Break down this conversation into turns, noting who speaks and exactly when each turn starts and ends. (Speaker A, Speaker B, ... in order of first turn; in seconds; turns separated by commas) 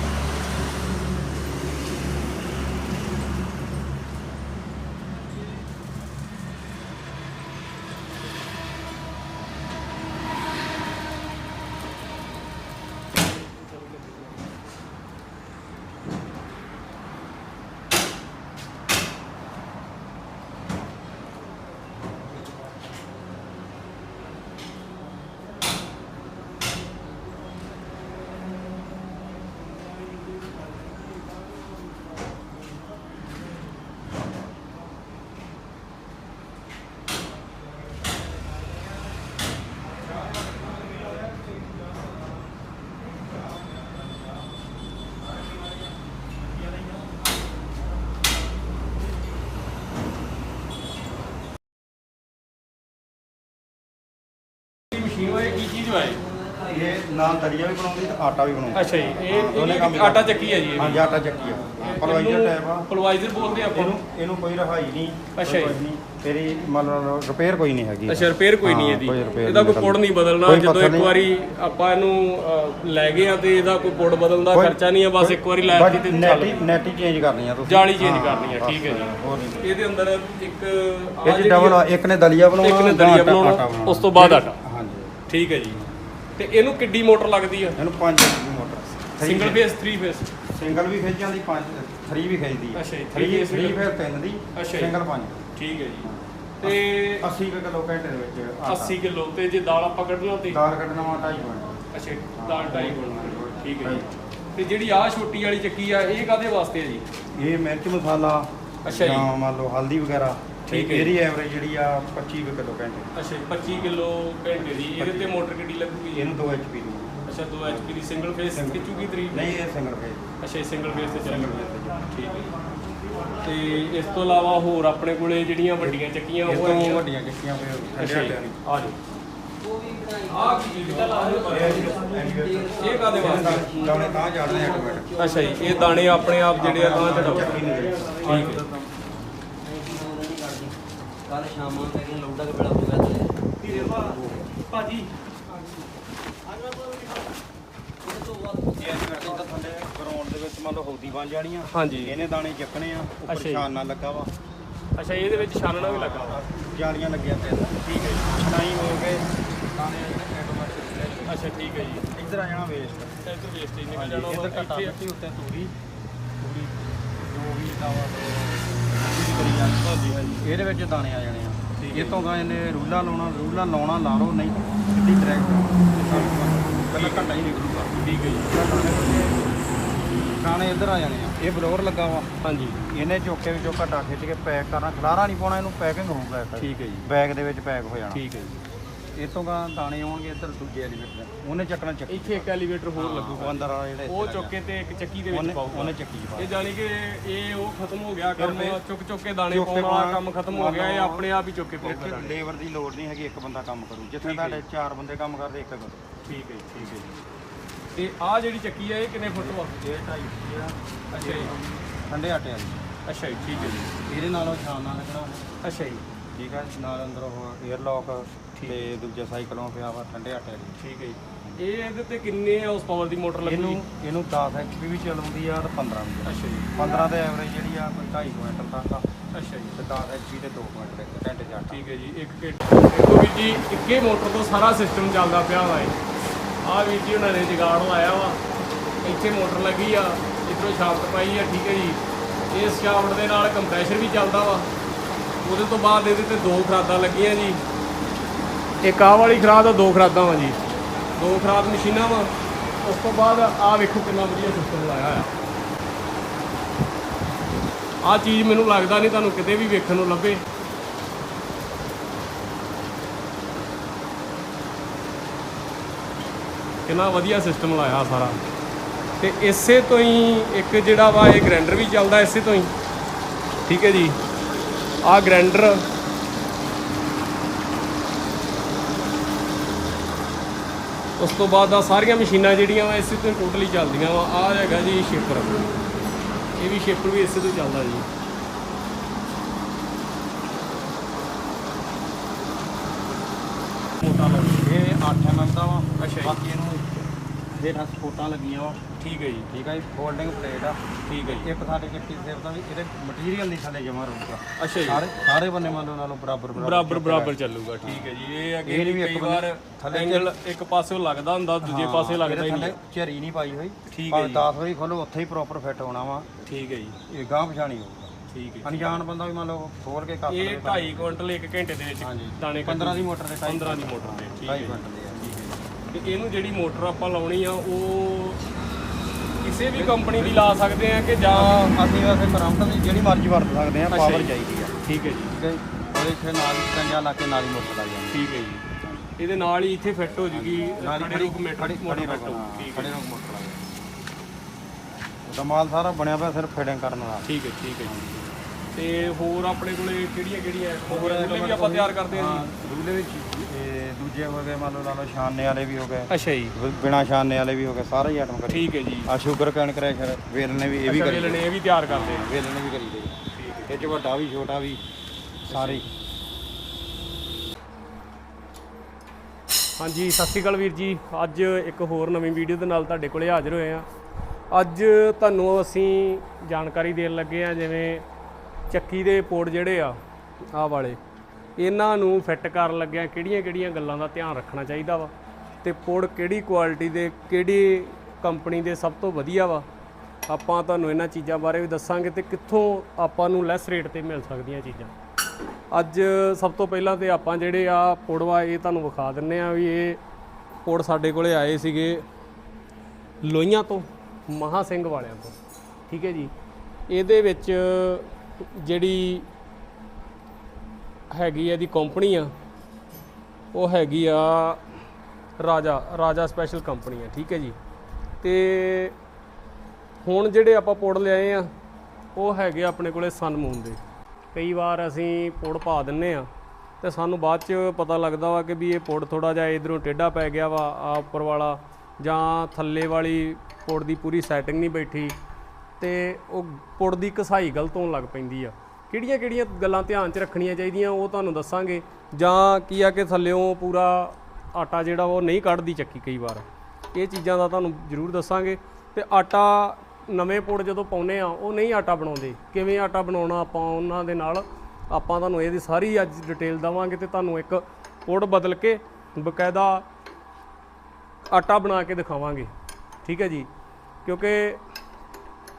Speaker A: 54.9-56.2, Speaker B: 56.2-57.3, Speaker C: 56.7-71.2, Speaker A: 58.7-61.1, Speaker B: 60.5-61.8, Speaker A: 61.8-64.0, Speaker A: 65.4-65.8, Speaker A: 68.1-76.6, Speaker C: 74.5-79.7, Speaker A: 77.7-81.9, Speaker C: 81.2-85.2, Speaker A: 82.6-84.6, Speaker A: 85.3-87.8, Speaker C: 87.8-89.6, Speaker A: 89.2-90.3, Speaker C: 90.5-95.5, Speaker A: 92.8-93.9, Speaker A: 94.5-94.9, Speaker A: 95.5-96.1, Speaker C: 96.0-99.0, Speaker A: 96.6-97.3, Speaker A: 98.7-100.6, Speaker C: 100.5-101.8, Speaker A: 101.9-107.1, Speaker C: 102.3-104.2, Speaker C: 107.3-113.1, Speaker A: 108.8-109.3, Speaker A: 110.7-111.2, Speaker A: 113.2-116.3, Speaker C: 114.6-115.4, Speaker C: 116.1-118.0, Speaker A: 117.3-119.6, Speaker C: 118.5-120.3, Speaker A: 120.4-121.6, Speaker C: 120.9-122.2, Speaker A: 122.1-122.5, Speaker A: 123.4-127.0, Speaker C: 126.5-128.6, Speaker A: 128.0-129.0, Speaker B: 129.6-138.8, Speaker A: 130.3-132.0, Speaker C: 131.5-135.3, Speaker A: 132.8-133.9, Speaker A: 135.2-137.7, Speaker C: 136.5-138.9, Speaker A: 138.2-138.6, Speaker B: 139.6-144.4, Speaker A: 143.6-145.1, Speaker B: 146.6-147.1, Speaker B: 148.0-149.5, Speaker C: 148.8-154.3, Speaker A: 151.7-152.2, Speaker A: 153.3-153.7, Speaker A: 155.0-156.4, Speaker C: 155.4-161.4, Speaker A: 157.8-158.3, Speaker A: 161.3-162.1, Speaker C: 162.1-163.2, Speaker A: 163.2-165.0, Speaker C: 163.9-165.8, Speaker C: 166.4-179.3, Speaker A: 169.8-170.4, Speaker A: 171.8-172.2, Speaker A: 176.0-176.4, Speaker A: 176.9-179.3, Speaker C: 180.4-182.3, Speaker A: 182.4-182.8, Speaker C: 182.9-188.2, Speaker A: 186.6-187.1, Speaker A: 188.1-188.6, Speaker C: 189.2-194.6, Speaker A: 192.1-202.4, Speaker C: 195.3-196.5, Speaker C: 198.4-198.8, Speaker C: 199.5-201.3, Speaker C: 201.8-206.1, Speaker A: 204.2-204.6, Speaker A: 206.2-207.1, Speaker A: 207.9-209.7, Speaker C: 209.3-212.9, Speaker A: 211.1-211.5, Speaker A: 213.1-213.9, Speaker C: 213.5-215.5, Speaker A: 215.6-216.0, Speaker C: 216.4-220.8, Speaker A: 218.6-218.9, Speaker A: 220.8-223.8, Speaker C: 223.4-231.8, Speaker A: 226.2-226.7, Speaker A: 229.3-229.7, Speaker A: 231.7-236.0, Speaker A: 236.6-238.4, Speaker A: 239.0-242.0, Speaker A: 242.5-244.7, Speaker A: 245.4-247.6, Speaker A: 248.8-250.6, Speaker A: 251.2-252.3, Speaker A: 252.8-255.3, Speaker A: 258.0-260.4, Speaker A: 266.9-268.4, Speaker A: 269.2-272.7, Speaker A: 273.7-274.2, Speaker A: 275.0-275.9, Speaker A: 281.2-285.7, Speaker A: 286.6-288.1, Speaker A: 294.0-294.7, Speaker C: 294.6-298.8, Speaker A: 296.0-296.4, Speaker A: 299.0-299.5, Speaker C: 299.5-308.1, Speaker A: 301.1-301.5, Speaker A: 304.6-305.1, Speaker A: 306.6-312.8, Speaker C: 308.6-310.3, Speaker C: 311.6-316.3, Speaker A: 313.9-314.5, Speaker A: 316.4-317.0, Speaker C: 317.1-321.2, Speaker A: 318.3-318.9, Speaker A: 320.3-328.4, Speaker C: 322.0-325.3, Speaker A: 329.4-331.8, Speaker C: 329.7-330.5, Speaker C: 331.3-334.8, Speaker A: 333.9-334.3, Speaker A: 334.8-335.3, Speaker C: 335.3-339.1, Speaker A: 338.1-338.7, Speaker A: 339.2-343.0, Speaker C: 340.3-343.6, Speaker C: 345.3-347.3, Speaker A: 347.3-347.9, Speaker C: 347.9-348.3, Speaker A: 348.7-352.5, Speaker C: 350.9-364.8, Speaker A: 356.1-356.6, Speaker A: 358.5-359.1, Speaker A: 360.9-362.3, Speaker A: 363.3-364.0, Speaker A: 365.5-365.9, Speaker C: 365.5-365.9, Speaker A: 369.8-373.9, Speaker A: 374.5-378.1, Speaker A: 378.7-380.0, Speaker A: 380.5-381.0, Speaker A: 381.6-389.7, Speaker A: 390.3-394.9, Speaker A: 395.7-400.0, Speaker A: 400.6-402.1, Speaker A: 403.2-405.4, Speaker A: 405.9-406.3, Speaker A: 406.9-409.3, Speaker A: 411.1-412.3, Speaker A: 413.5-414.6, Speaker A: 415.4-417.6, Speaker A: 418.2-419.0, Speaker A: 420.0-421.5, Speaker A: 422.1-423.8, Speaker A: 424.3-426.3, Speaker A: 426.8-435.2, Speaker A: 435.8-459.9, Speaker A: 461.3-462.5, Speaker A: 463.0-463.5, Speaker A: 464.1-464.6